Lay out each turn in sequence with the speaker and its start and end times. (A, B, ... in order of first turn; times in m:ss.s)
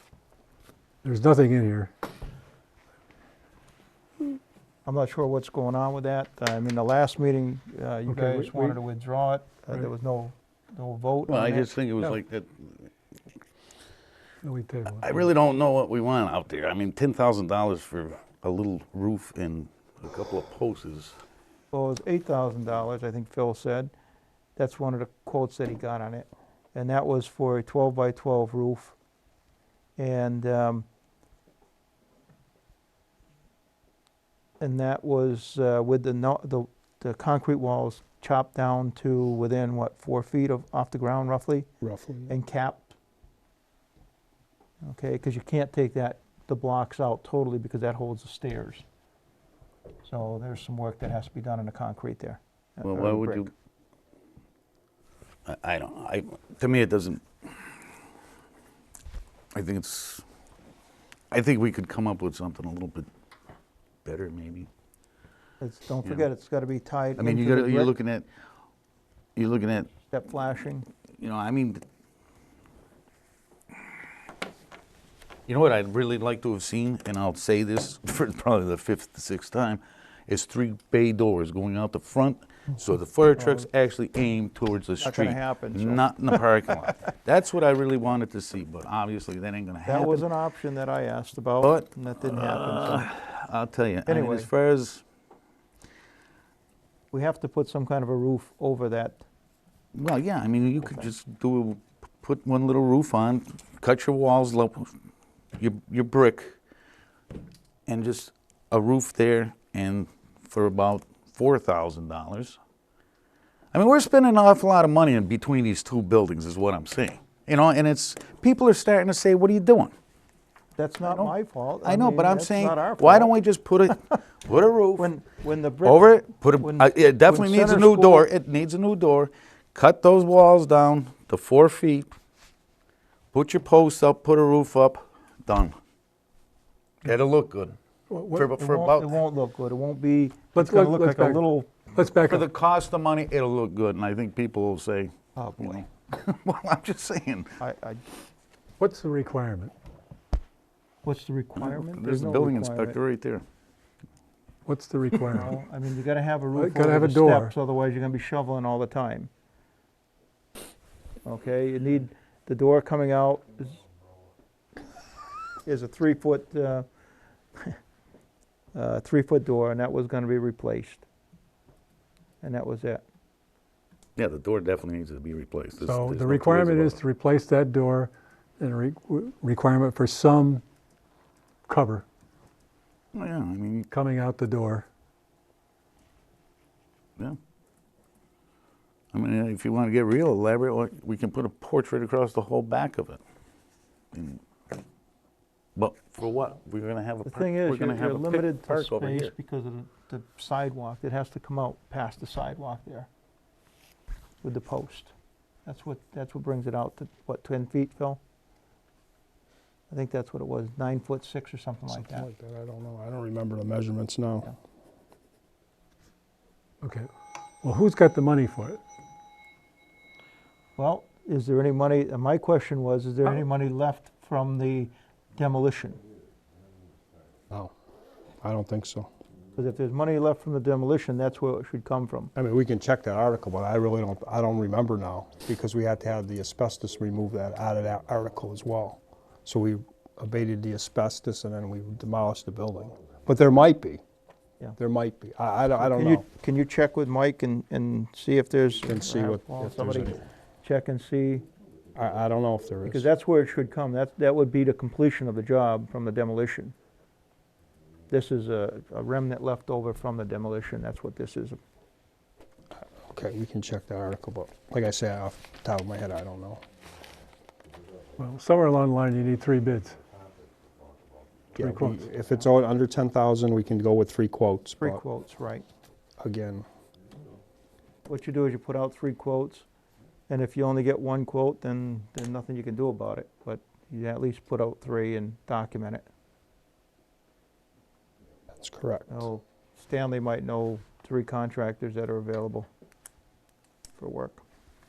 0:01.0-0:01.9 A
0:04.8-0:11.7 B
0:08.1-0:08.8 A
0:11.3-0:12.9 C
0:14.4-0:15.3 A
0:15.0-0:21.2 C
0:21.7-0:23.9 B
0:24.6-0:29.0 B
0:30.0-0:30.8 B
0:34.6-0:41.7 B
0:41.8-0:42.3 D
0:42.3-0:42.9 B
0:44.8-0:48.8 B
0:50.0-0:53.5 B
0:52.8-0:53.5 C
0:55.4-0:57.6 C
0:59.5-1:00.2 C
1:01.3-1:03.1 C
1:04.0-1:04.7 C
1:05.6-1:07.9 B
1:07.2-1:08.3 C
1:09.4-1:09.9 C
1:10.1-1:10.9 B
1:11.2-1:11.8 C
1:15.5-1:30.3 C
1:23.4-1:23.6 B
1:25.0-1:26.4 B
1:29.8-1:33.1 B
1:31.6-1:35.0 C
1:34.0-1:34.5 B
1:37.1-1:39.2 B
1:39.9-1:44.9 C
1:45.6-1:46.6 C
1:47.9-1:52.6 C
1:53.7-1:59.9 C
2:00.8-2:03.4 B
2:01.0-2:05.1 C
2:05.0-2:08.3 B
2:05.8-2:12.1 C
2:13.3-2:15.8 C
2:17.0-2:17.8 C
2:18.1-2:18.5 A
2:18.3-2:19.1 C
2:18.6-2:21.7 B
2:20.5-2:22.5 A
2:22.2-2:27.5 C
2:25.4-2:25.8 B
2:27.6-2:28.0 B
2:28.8-2:29.7 A
2:31.0-2:33.0 B
2:31.6-2:33.4 C
2:34.6-2:35.5 A
2:35.3-2:39.3 B
2:36.5-2:37.5 A
2:41.2-2:43.8 B
2:45.6-2:46.8 B
2:48.7-2:51.0 B
2:52.4-2:53.0 B
2:54.2-2:57.0 C
2:55.8-3:00.6 A
3:01.6-3:02.0 A
3:03.1-3:03.9 C
3:03.9-3:04.8 A
3:09.1-3:13.2 C
3:14.1-3:14.4 C
3:15.8-3:19.3 C
3:17.2-3:23.1 B
3:24.4-3:25.1 B
3:25.6-3:28.2 B
3:29.9-3:32.3 B
3:31.9-3:34.5 D
3:36.8-3:37.1 A
3:37.6-3:38.8 A
3:40.8-3:46.0 B
3:48.4-3:49.1 D
3:49.6-3:52.3 B
3:52.3-4:04.0 D
4:04.8-4:06.2 D
4:05.8-4:11.4 B
4:08.8-4:10.2 D
4:11.9-4:13.0 D
4:12.8-4:16.7 B
4:18.1-4:21.6 B
4:22.8-4:26.6 D
4:28.2-4:30.0 A
4:31.5-4:35.0 D
4:31.6-4:32.0 A
4:34.8-4:35.6 B
4:36.2-4:36.6 D
4:38.0-4:39.6 B
4:40.3-4:46.0 B
4:48.5-4:49.3 D
4:49.1-4:52.7 B
4:54.0-4:54.4 B